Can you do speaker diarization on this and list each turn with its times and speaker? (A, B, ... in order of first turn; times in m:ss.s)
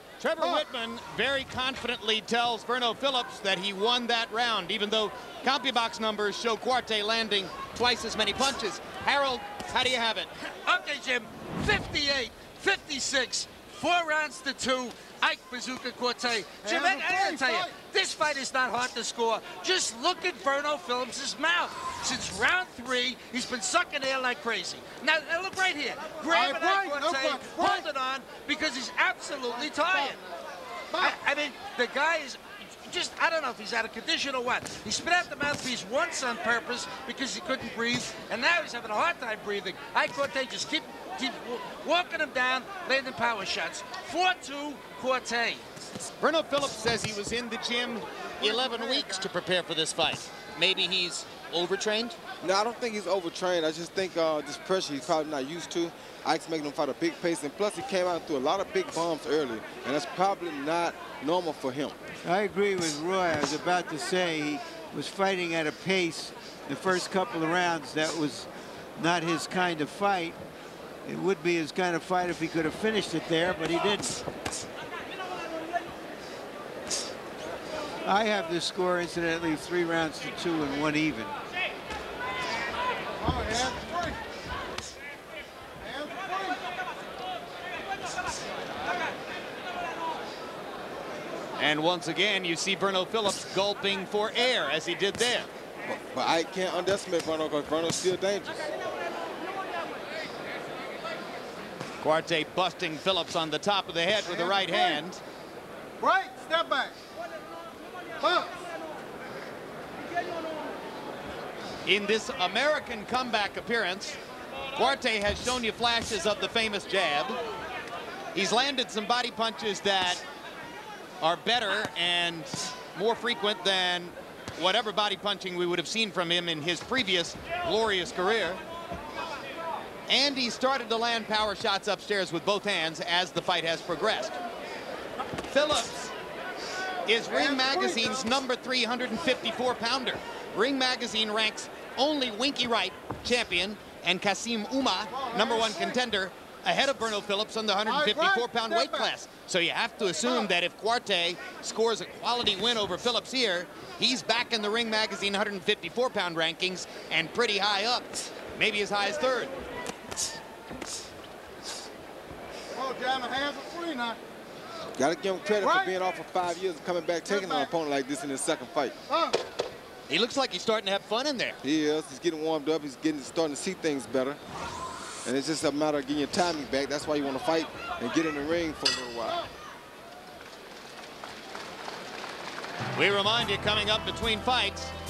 0:00.2-0:10.3 A
0:00.4-0:00.6 B
0:10.5-0:30.2 C
0:16.6-0:17.8 B
0:26.3-0:27.9 B
0:29.6-0:30.2 B
0:30.9-0:31.2 B
0:31.0-0:45.6 C
0:46.2-0:52.2 A
0:48.4-0:49.3 B
0:52.4-1:02.0 D
1:02.2-1:10.4 E
1:11.0-1:14.2 E
1:18.0-1:21.4 E
1:23.2-1:24.2 B
1:25.8-1:26.6 B
1:31.6-1:35.5 A
1:35.9-1:38.7 D
1:42.0-1:45.2 A
1:44.2-1:45.0 B
1:46.0-1:47.0 B
1:48.2-1:48.7 B
1:51.8-1:54.2 A
1:54.7-1:57.4 A
1:58.3-2:00.2 A
2:01.2-2:08.6 A
2:10.1-2:14.4 A
2:15.5-2:16.1 A
2:17.1-2:39.5 A
2:17.3-2:18.3 B
2:25.1-2:26.0 B
2:27.9-2:29.1 B
2:42.7-2:44.2 B
2:45.0-2:49.0 D
2:45.6-2:45.9 B
2:47.3-2:47.7 B
2:49.1-2:49.4 B
2:50.1-2:51.6 A
2:51.6-2:54.4 D
2:55.2-2:59.4 D
3:03.0-3:04.9 A